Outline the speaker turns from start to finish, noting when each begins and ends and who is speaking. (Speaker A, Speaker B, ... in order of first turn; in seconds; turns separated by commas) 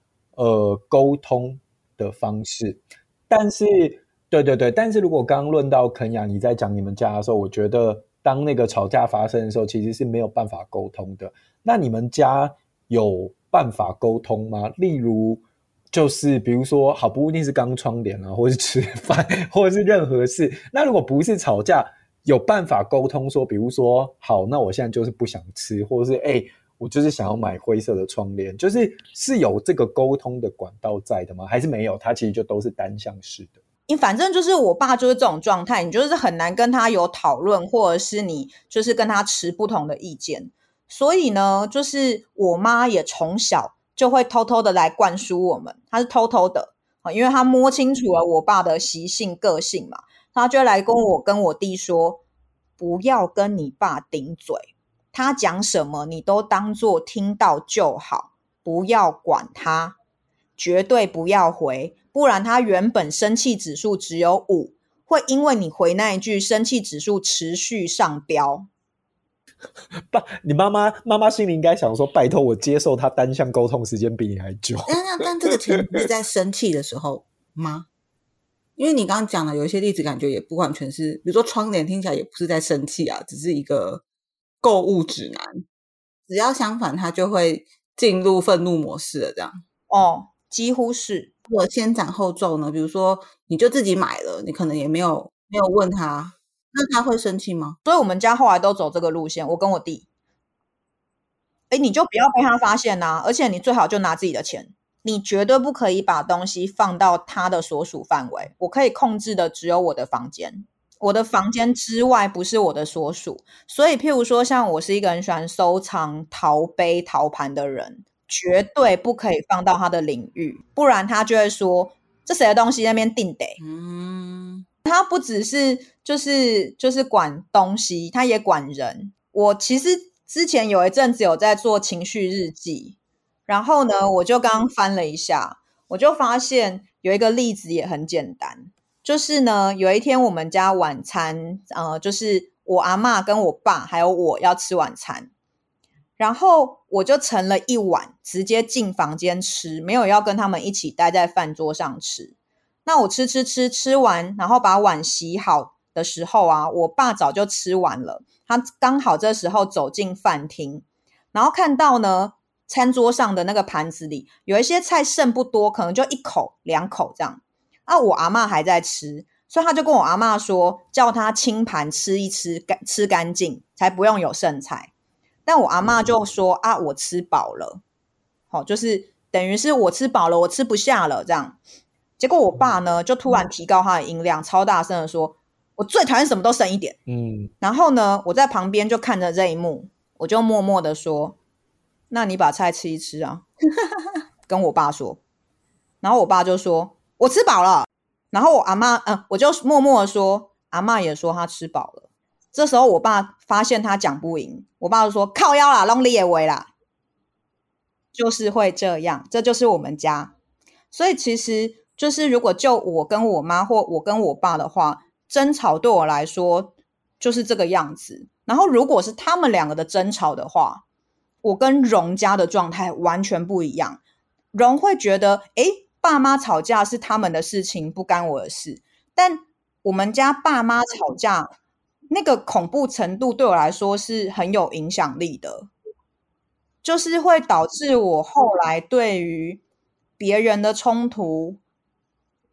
Speaker A: 0.4-33.5, Speaker B: 33.9-52.2, Speaker B: 52.8-60.0, Speaker B: 60.6-68.7, Speaker A: 70.1-75.0, Speaker C: 74.9-77.8, Speaker C: 78.8-84.0, Speaker C: 84.6-85.6, Speaker C: 86.3-89.5, Speaker B: 89.9-91.3, Speaker C: 91.5-97.8, Speaker B: 97.8-100.0, Speaker B: 101.7-123.6, Speaker C: 123.6-124.6, Speaker B: 124.8-132.9, Speaker B: 133.5-145.3, Speaker B: 146.2-152.3, Speaker B: 152.8-174.9, Speaker B: 175.4-177.8, Speaker B: 178.5-181.6, Speaker B: 182.2-187.0, Speaker A: 187.1-187.5, Speaker B: 187.6-191.4, Speaker B: 192.1-193.4, Speaker B: 194.5-195.2, Speaker B: 196.0-206.7, Speaker B: 208.1-210.3, Speaker B: 210.9-220.8, Speaker B: 221.4-224.0, Speaker B: 224.5-231.5, Speaker B: 232.1-235.7, Speaker B: 236.8-239.6, Speaker B: 240.2-241.6